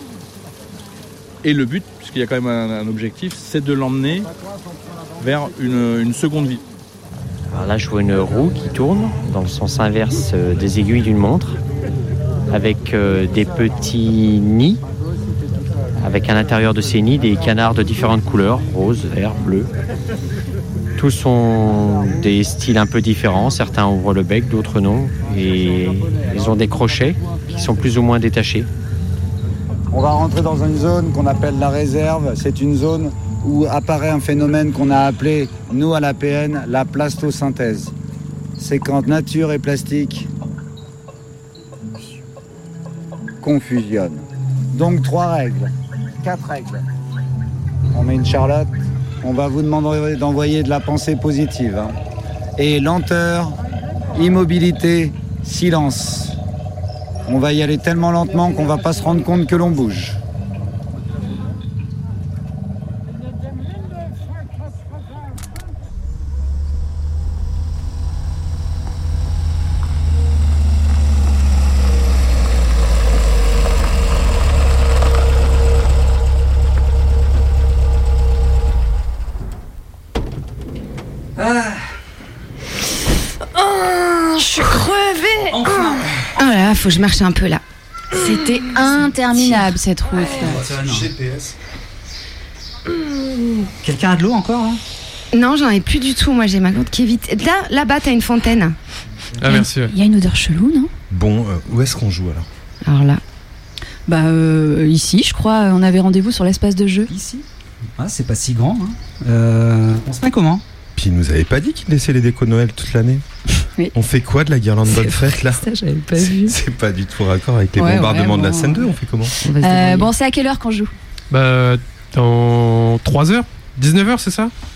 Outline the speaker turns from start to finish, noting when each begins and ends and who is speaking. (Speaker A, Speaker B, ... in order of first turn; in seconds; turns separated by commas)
Speaker A: 1.4-4.3, Speaker A: 5.2-6.6, Speaker B: 7.5-11.6, Speaker B: 12.5-14.8, Speaker B: 16.0-19.7, Speaker B: 21.0-28.7, Speaker C: 29.9-37.9, Speaker C: 38.6-40.3, Speaker C: 43.4-46.9, Speaker C: 47.9-51.9, Speaker C: 52.6-53.5, Speaker C: 54.1-56.4, Speaker C: 57.3-60.2, Speaker D: 81.4-81.9, Speaker E: 83.6-86.0, Speaker D: 85.5-86.1, Speaker F: 86.4-87.6, Speaker E: 88.1-90.8, Speaker D: 90.4-91.1, Speaker G: 90.8-91.5, Speaker D: 93.8-94.8, Speaker F: 95.3-98.8, Speaker H: 99.4-99.9, Speaker E: 99.4-100.9, Speaker G: 101.1-102.5, Speaker F: 102.8-103.2, Speaker E: 104.1-107.1, Speaker D: 107.1-107.4, Speaker D: 108.0-110.6, Speaker G: 111.0-113.2, Speaker G: 113.9-115.6, Speaker F: 114.9-116.3, Speaker G: 116.2-119.3, Speaker E: 117.8-118.9, Speaker F: 119.5-120.1, Speaker E: 119.6-120.9, Speaker H: 121.3-124.5